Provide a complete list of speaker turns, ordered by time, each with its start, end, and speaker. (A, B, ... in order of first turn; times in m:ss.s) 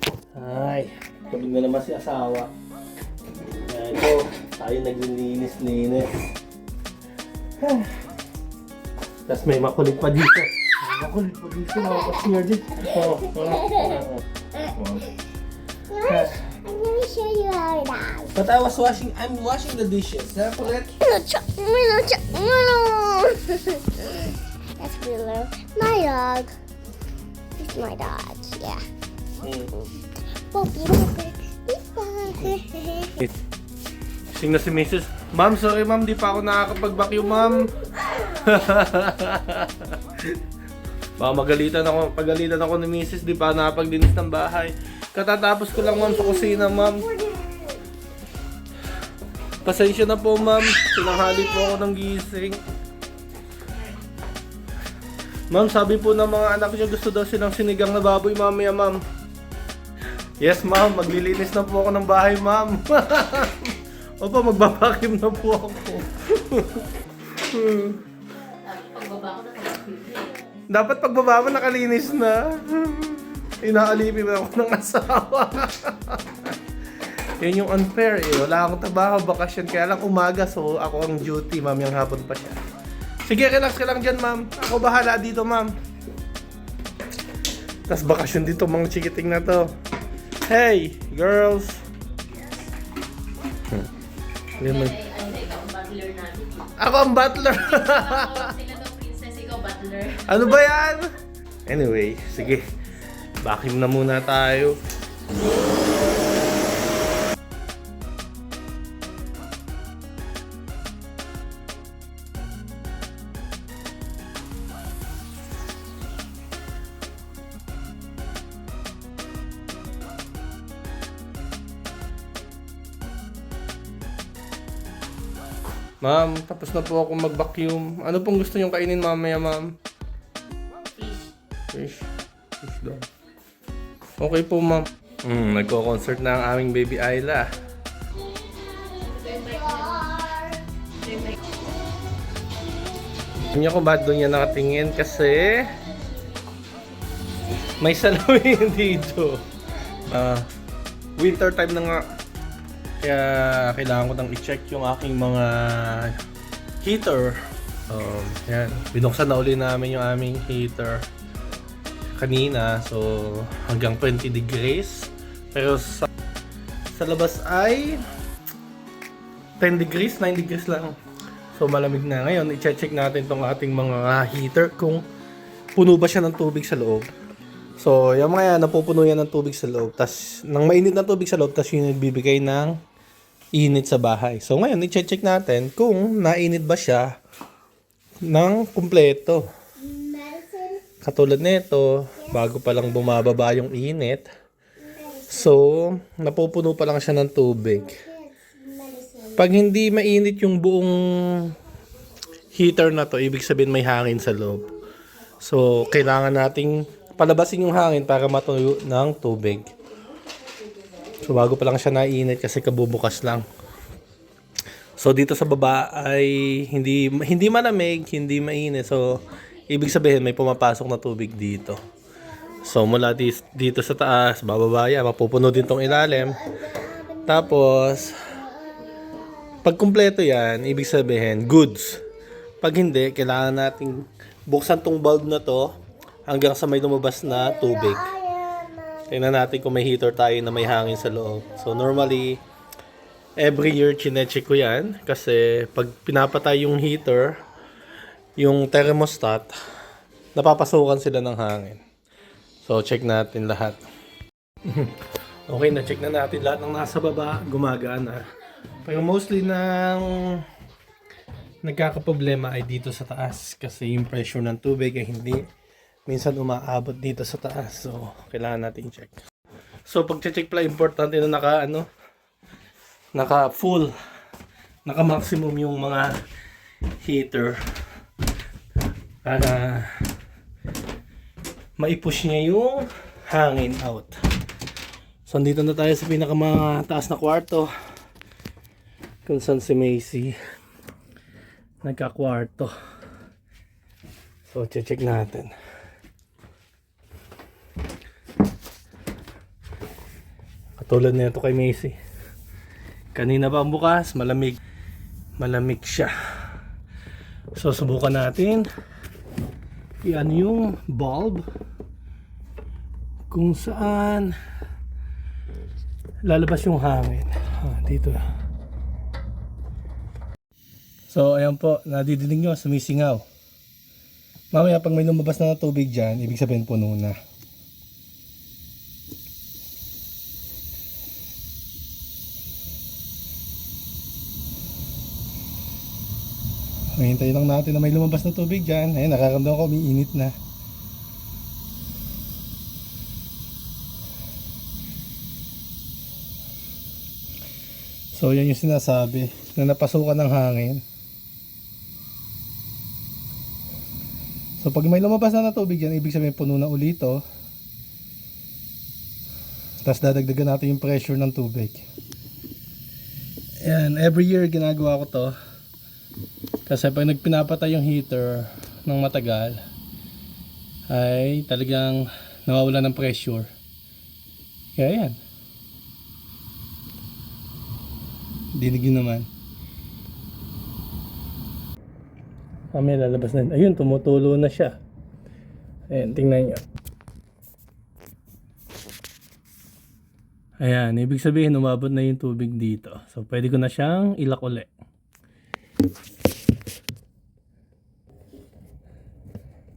0:00.3-0:02.5 A
0:03.6-0:06.2 A
0:07.6-0:07.9 A
0:09.2-0:15.1 A
0:13.3-0:14.0 B
0:15.9-0:18.3 B
0:16.1-0:16.4 A
0:18.4-0:20.9 A
0:21.0-0:26.5 B
0:27.6-0:28.8 B
0:29.4-0:29.7 A
0:30.5-0:33.2 B
0:34.3-0:40.3 A
0:41.2-0:47.1 A
0:45.9-0:47.8 B
0:49.6-0:52.6 A
0:55.5-0:59.0 A
1:00.4-1:08.0 A
1:08.6-1:10.4 C
1:10.7-1:16.5 A
1:17.4-1:22.6 A
1:23.2-1:25.7 A
1:27.9-1:29.7 A
1:30.4-1:31.8 A
1:34.6-1:36.7 C
1:34.6-1:35.0 A
1:36.8-1:38.5 A
1:37.4-1:40.5 C
1:40.3-1:41.1 A
1:41.6-1:42.6 A
1:43.4-1:44.8 A
2:06.0-2:09.7 A
2:11.0-2:11.3 C
2:11.7-2:12.1 A
2:12.6-2:13.0 A
2:14.2-2:17.5 A
2:19.0-2:20.6 B
2:19.1-2:20.1 C
2:21.0-2:21.3 C
2:23.4-2:25.7 A
2:27.8-2:29.4 A
2:30.0-2:30.4 A
2:31.2-2:32.0 A
2:33.0-2:36.2 A
2:36.8-2:37.4 A
2:37.9-2:41.0 A
2:42.2-2:46.1 A
2:46.9-2:48.0 A
2:49.6-2:51.0 A
2:51.5-2:55.0 A
2:55.7-2:57.1 A
2:57.8-3:02.8 A
3:03.5-3:07.1 A
3:08.2-3:09.4 A
3:09.8-3:10.9 B
3:11.0-3:14.3 A
3:15.0-3:15.4 B
3:15.3-3:18.0 A
3:17.9-3:19.4 B
3:19.4-3:21.5 A
3:22.5-3:24.7 A
3:25.4-3:29.7 A
3:31.2-3:33.4 A
3:35.0-3:39.2 A
3:39.7-3:41.8 A
3:42.6-3:46.5 A
3:47.2-3:48.4 A
3:49.6-3:52.0 A
3:52.6-3:55.7 A
3:56.3-3:58.2 A
3:58.2-3:58.9 B
3:59.0-4:02.4 A
4:03.4-4:07.4 A
4:08.4-4:09.5 A
4:10.4-4:11.8 A
4:12.6-4:13.8 A
4:14.6-4:18.2 A
4:18.8-4:20.4 A
4:21.6-4:25.4 A
4:26.1-4:29.2 A
4:29.9-4:31.9 A
4:33.1-4:33.9 A
4:34.8-4:36.1 A
4:37.0-4:37.6 A
4:39.2-4:40.0 A
4:41.8-4:44.1 A
4:45.2-4:47.7 A
4:49.2-4:50.4 A
4:51.8-4:52.7 A
4:54.5-4:55.5 A
5:00.8-5:02.0 A
5:03.1-5:04.6 A
5:05.4-5:06.1 A
5:07.6-5:08.7 A
5:10.0-5:11.4 A
5:13.3-5:14.3 A
5:16.2-5:18.2 A
5:21.1-5:23.2 A
5:24.5-5:27.2 A
5:37.0-5:40.3 A
5:48.1-5:50.8 A
5:54.6-5:57.2 A
5:59.8-6:01.8 A
6:03.6-6:05.4 A
6:06.7-6:09.6 A
6:10.9-6:13.5 A
6:14.8-6:15.2 A
6:18.6-6:19.3 A
6:22.7-6:24.7 A
6:25.9-6:26.6 A
6:30.6-6:34.7 A